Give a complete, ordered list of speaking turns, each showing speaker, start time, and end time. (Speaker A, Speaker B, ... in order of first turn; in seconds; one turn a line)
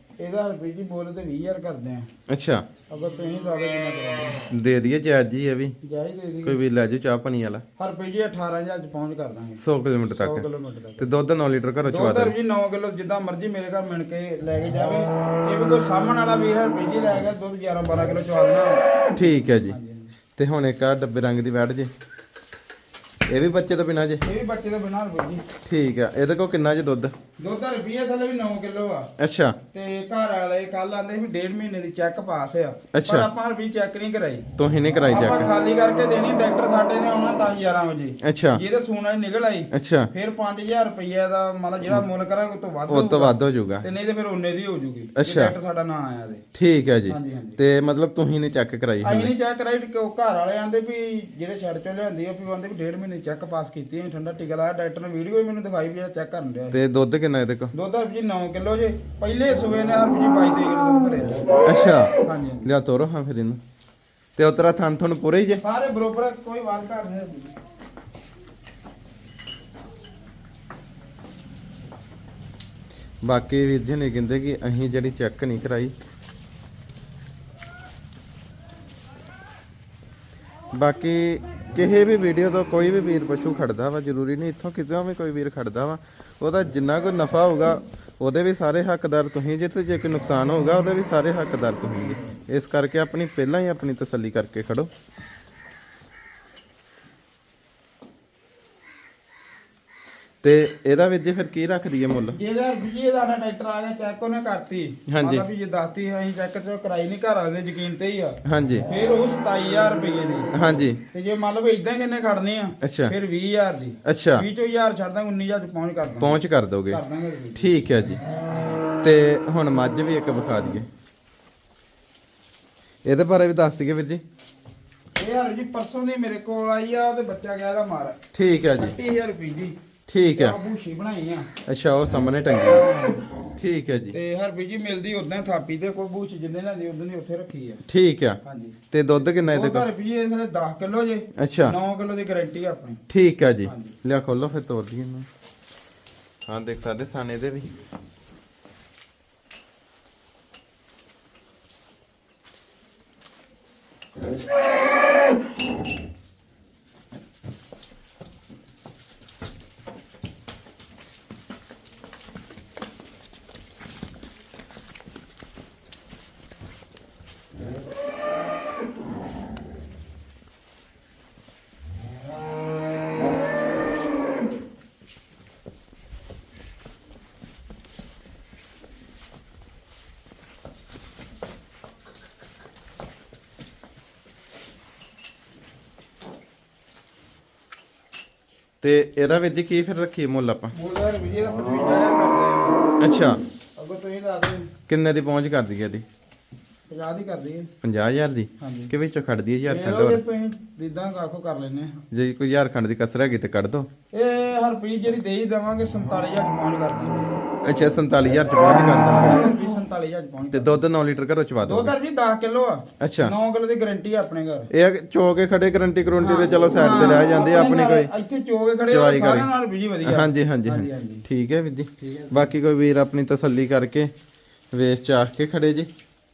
Speaker A: 0.2-2.1
Speaker B: 2.3-2.6
Speaker A: 2.9-4.4
Speaker B: 4.5-5.7
Speaker A: 5.8-6.6
Speaker B: 6.4-7.6
Speaker A: 7.8-9.6
Speaker B: 9.6-10.4
Speaker A: 10.1-11.1
Speaker B: 11.0-12.3
Speaker A: 11.8-18.8
Speaker B: 19.1-19.8
Speaker A: 19.7-20.1
Speaker B: 20.4-21.9
Speaker B: 23.3-24.2
Speaker A: 24.2-25.4
Speaker B: 25.6-27.1
Speaker A: 27.4-29.1
Speaker B: 29.2-29.6
Speaker A: 29.7-34.5
Speaker B: 32.9-33.3
Speaker B: 34.6-35.5
Speaker A: 35.0-46.4
Speaker B: 38.2-38.6
Speaker B: 39.7-40.1
Speaker B: 42.9-43.9
Speaker B: 45.2-45.5
Speaker B: 46.5-49.3
Speaker A: 47.1-47.6
Speaker A: 49.0-56.8
Speaker B: 56.7-57.7
Speaker A: 57.7-61.6
Speaker B: 61.6-63.6
Speaker A: 62.2-62.7
Speaker B: 64.3-65.6
Speaker A: 65.6-67.5
Speaker B: 73.2-75.9
Speaker B: 80.7-94.9
Speaker B: 100.4-102.4
Speaker A: 102.3-110.5
Speaker B: 105.1-105.5
Speaker B: 108.4-108.8
Speaker B: 110.5-111.0
Speaker A: 111.1-117.7
Speaker B: 112.8-113.1
Speaker B: 114.0-114.4
Speaker B: 116.2-117.0
Speaker B: 117.5-118.2
Speaker B: 119.0-120.9
Speaker B: 123.0-124.2
Speaker A: 125.2-128.2
Speaker B: 128.3-128.9
Speaker A: 128.8-129.8
Speaker B: 130.1-130.6
Speaker A: 130.3-131.5
Speaker B: 131.7-132.9
Speaker A: 132.6-133.3
Speaker B: 133.6-134.2
Speaker A: 134.1-137.8
Speaker B: 137.9-138.4
Speaker A: 138.4-138.8
Speaker B: 138.9-139.8
Speaker A: 139.4-143.0
Speaker B: 141.4-141.8
Speaker B: 143.1-145.3
Speaker A: 143.6-144.0
Speaker B: 146.5-147.7
Speaker B: 188.8-190.7
Speaker A: 190.7-192.8
Speaker B: 193.0-193.4
Speaker A: 193.8-194.7
Speaker B: 194.9-196.0
Speaker A: 196.9-197.7
Speaker B: 197.8-200.2
Speaker A: 198.6-198.9
Speaker A: 199.6-202.0
Speaker B: 202.1-203.9
Speaker A: 204.1-207.3
Speaker B: 207.6-209.5
Speaker A: 209.2-210.8
Speaker B: 210.5-211.9
Speaker A: 211.6-214.7
Speaker B: 213.0-213.3
Speaker B: 214.7-218.1
Speaker A: 216.2-221.2
Speaker B: 218.9-219.5
Speaker B: 220.0-224.1
Speaker A: 222.0-222.5
Speaker B: 224.7-225.9